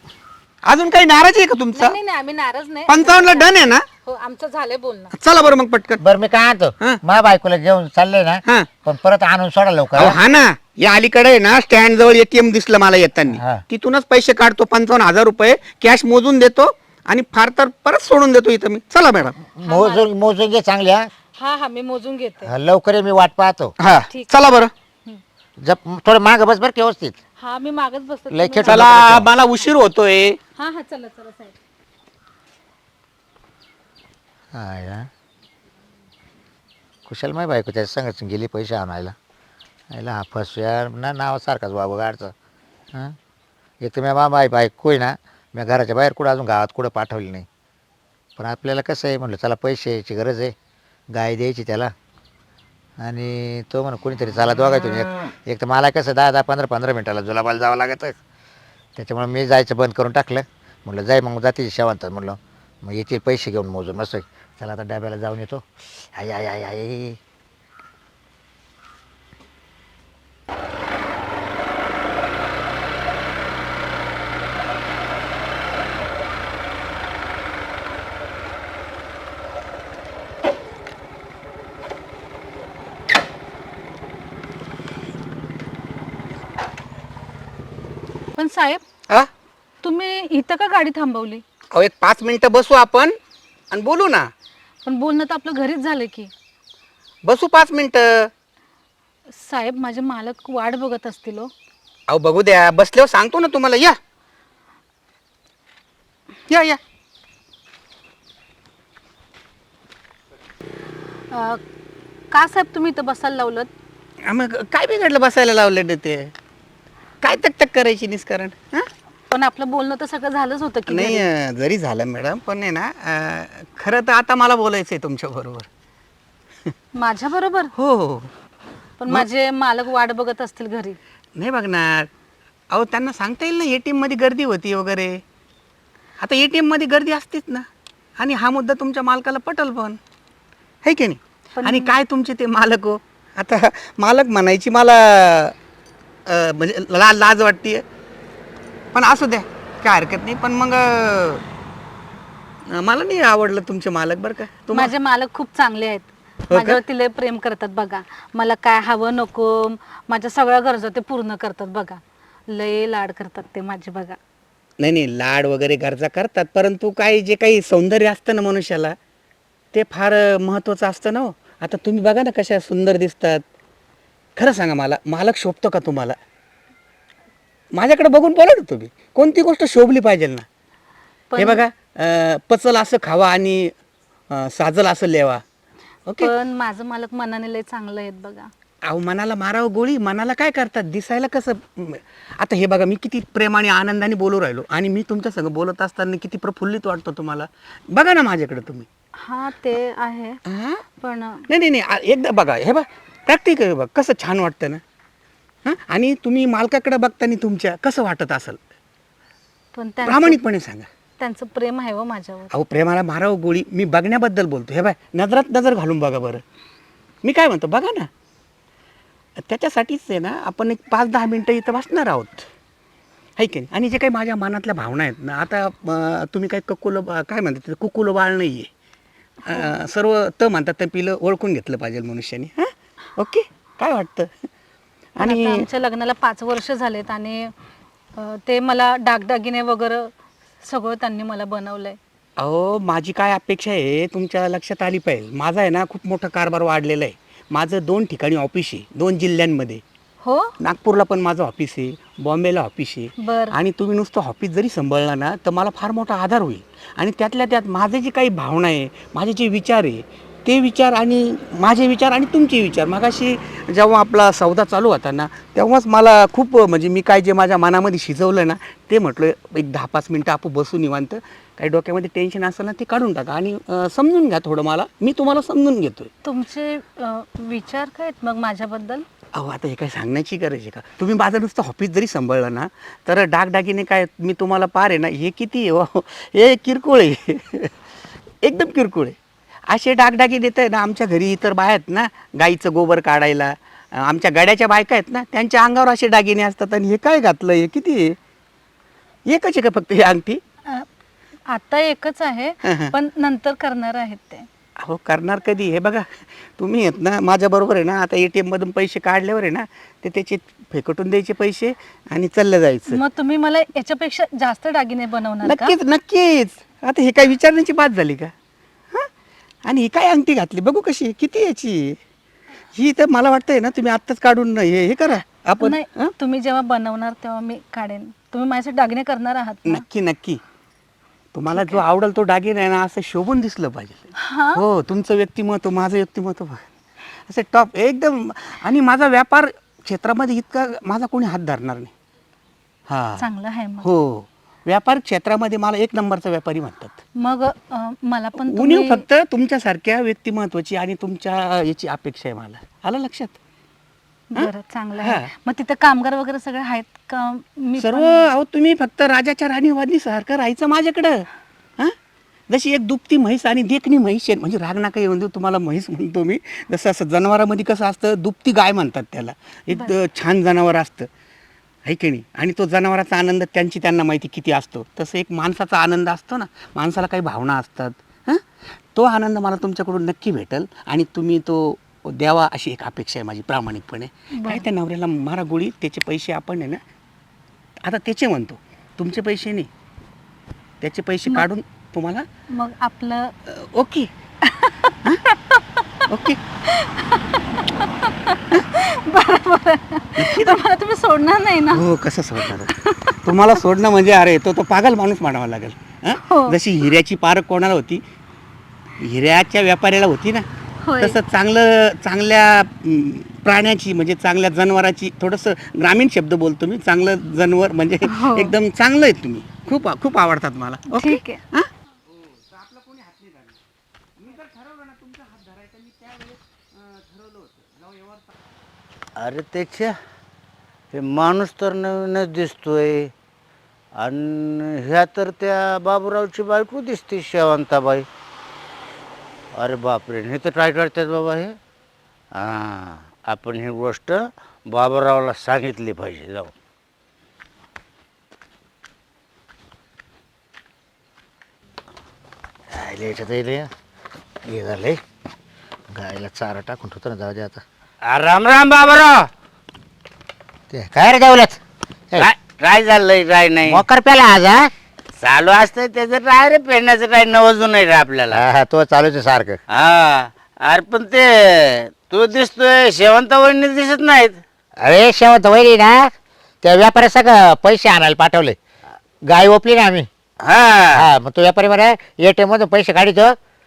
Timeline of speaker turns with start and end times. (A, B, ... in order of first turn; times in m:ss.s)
0:00.7-0:02.0 A
0:01.8-0:05.1 B
0:02.9-0:03.9 A
0:05.1-0:06.0 A
0:06.0-0:10.2 C
0:10.0-0:19.4 A
0:13.4-0:13.6 C
0:19.4-0:21.1 C
0:19.6-0:20.1 B
0:21.4-0:22.5 B
0:22.4-0:23.8 C
0:23.8-0:24.7 A
0:24.1-0:25.2 B
0:25.6-0:27.2 C
0:27.4-0:29.1 B
0:28.3-0:29.3 C
0:28.6-0:30.4 A
0:30.6-0:31.6 B
0:34.5-0:35.1 C
0:37.1-0:39.1 C
0:39.9-0:42.3 C
0:43.8-0:47.5 C
0:48.4-0:50.6 C
0:51.1-0:51.9 C
0:53.0-0:58.2 C
0:59.0-1:07.2 C
1:28.4-1:28.8 B
1:29.8-1:31.4 B
1:31.7-1:33.2 A
1:33.7-1:34.3 A
1:34.8-1:36.3 B
1:37.2-1:38.3 A
1:39.3-1:41.5 B
1:42.1-1:44.0 A
1:46.5-1:46.8 A
1:51.3-1:51.6 B
1:52.3-1:53.7 B
1:54.2-1:56.3 A
1:57.2-1:58.9 A
1:59.3-2:01.3 B
2:00.9-2:05.7 A
2:06.9-2:07.7 B
2:07.8-2:08.3 A
2:09.0-2:11.0 B
2:11.4-2:12.1 A
2:12.7-2:15.2 A
2:16.2-2:20.0 A
2:20.8-2:25.6 A
2:21.6-2:22.0 B
2:26.3-2:27.8 A
2:28.9-2:31.4 A
2:32.7-2:34.9 A
2:34.7-2:44.2 B
2:36.5-2:36.8 A
2:44.8-2:49.0 A
2:49.7-2:53.4 A
2:54.4-2:56.2 A
2:57.7-3:00.4 A
3:01.3-3:01.6 B
3:01.4-3:03.7 A
3:04.3-3:05.4 A
3:06.1-3:06.3 A
3:06.2-3:08.5 B
3:08.8-3:18.9 A
3:19.2-3:20.4 B
3:20.5-3:20.8 A
3:21.0-3:21.5 B
3:21.5-3:24.8 A
3:25.6-3:28.6 A
3:29.7-3:30.4 B
3:30.0-3:30.9 A
3:31.2-3:32.5 B
3:32.5-3:36.4 A
3:37.2-3:38.1 A
3:39.4-3:42.5 A
3:43.4-3:48.7 A
3:49.4-3:54.3 A
3:55.2-3:55.7 A
3:55.2-3:57.5 B
3:58.2-4:02.0 B
4:02.4-4:09.8 A
4:10.2-4:10.6 B
4:10.6-4:36.1 A
4:13.2-4:13.6 B
4:36.2-4:39.0 B
4:39.3-4:47.7 A
4:48.4-4:49.2 A
4:49.7-4:58.2 A
4:59.3-5:00.4 A
5:01.5-5:04.5 B
5:02.6-5:03.0 A
5:04.8-5:13.0 A
5:12.9-5:15.8 B
5:15.4-5:18.3 A
5:19.6-5:22.0 A
5:22.7-5:26.1 A
5:25.6-5:29.8 B
5:29.7-5:30.4 A
5:31.3-5:36.6 A
5:31.5-5:31.8 B
5:34.2-5:34.6 B
5:37.3-5:41.9 A
5:42.9-5:43.2 A
5:43.2-5:43.9 B
5:43.8-5:47.0 A
5:47.2-5:49.0 B
5:48.4-5:53.4 A
5:54.3-5:58.3 B
5:54.4-5:55.3 A
5:57.8-6:01.3 A
6:02.5-6:11.1 A
6:11.8-6:26.8 A
6:24.3-6:24.6 B
6:27.8-6:29.7 A
6:30.8-6:32.3 A
6:32.5-6:33.4 B
6:33.5-6:34.1 A
6:34.4-6:36.0 B
6:36.1-6:36.4 A
6:36.6-6:41.9 B
6:40.2-6:40.6 A
6:41.7-6:42.7 A
6:42.5-6:43.2 B
6:43.2-6:48.0 A
6:46.2-6:46.6 B
6:49.0-6:50.5 A
6:50.8-6:51.2 B
6:51.0-7:01.7 A
6:58.0-6:58.6 B
7:00.9-7:01.4 B
7:02.5-7:03.6 A
7:04.2-7:08.3 A
7:09.2-7:10.0 D
7:10.9-7:13.1 D
7:14.0-7:18.1 D
7:19.6-7:21.6 D
7:22.3-7:26.5 D
7:32.7-7:33.7 C
7:34.5-7:35.0 C
7:35.9-7:37.6 C
7:38.1-7:39.3 D
7:40.7-7:41.6 C
7:42.2-7:43.8 D
7:43.7-7:44.7 C
7:45.2-7:48.4 D
7:48.3-7:49.6 C
7:49.7-7:54.4 D
7:54.8-7:56.1 C
7:56.6-7:58.6 C
7:59.3-8:00.1 C
8:00.4-8:01.1 D
8:00.9-8:03.4 C